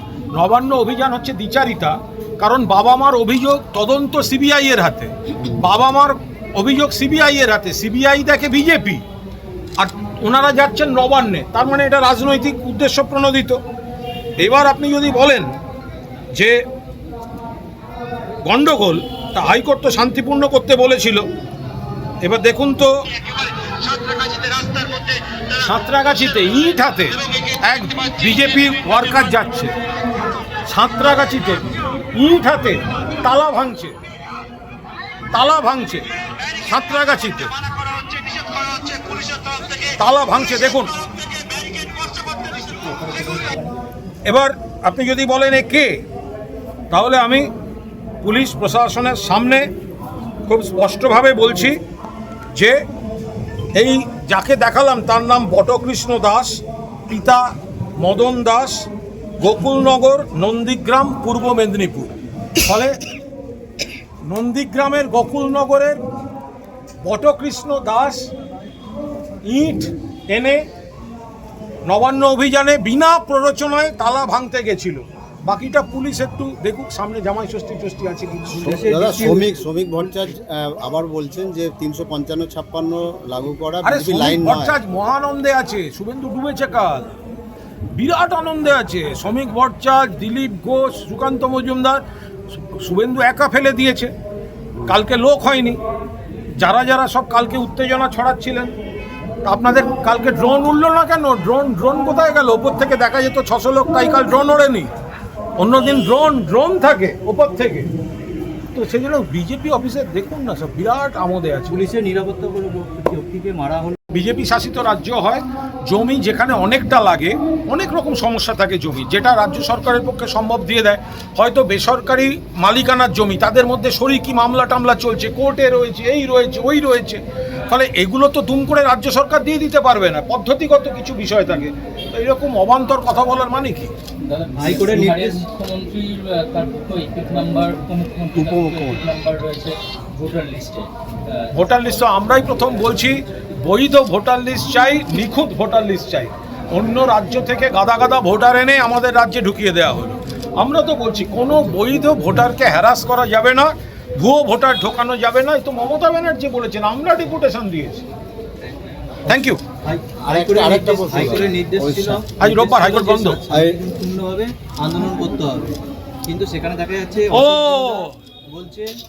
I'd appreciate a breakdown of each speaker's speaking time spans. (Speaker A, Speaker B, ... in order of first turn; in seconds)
Speaker A: 0.3-9.0, 9.8-13.6, 14.4-15.5, 18.4-21.2, 22.2-23.1, 25.5-29.7, 30.7-33.9, 35.3-37.7, 39.8-41.0, 44.3-46.0, 46.9-47.5, 48.2-49.7, 50.5-51.8, 52.5-52.8, 53.7-57.4, 58.0-58.9, 59.4-62.9, 64.2-66.0, 67.0-68.3, 69.5-70.6, 71.9-78.8, 83.8-87.1, 88.0-92.0, 92.5-94.1, 94.8-95.8, 96.6-98.7, 99.4-104.9, 105.6-107.9, 108.7-111.8, 114.1-133.9, 141.5-158.1, 159.3-159.6, 162.4-163.4, 167.3-168.2
Speaker B: 23.3-25.4, 37.7-39.9, 41.0-43.7, 134.2-140.9
Speaker C: 42.5-43.6, 78.7-79.6, 111.7-114.0, 134.5-135.5, 137.9-139.4, 159.8-165.7, 166.2-168.9
Speaker D: 78.6-84.8, 138.3-139.0, 160.3-162.2, 163.5-163.8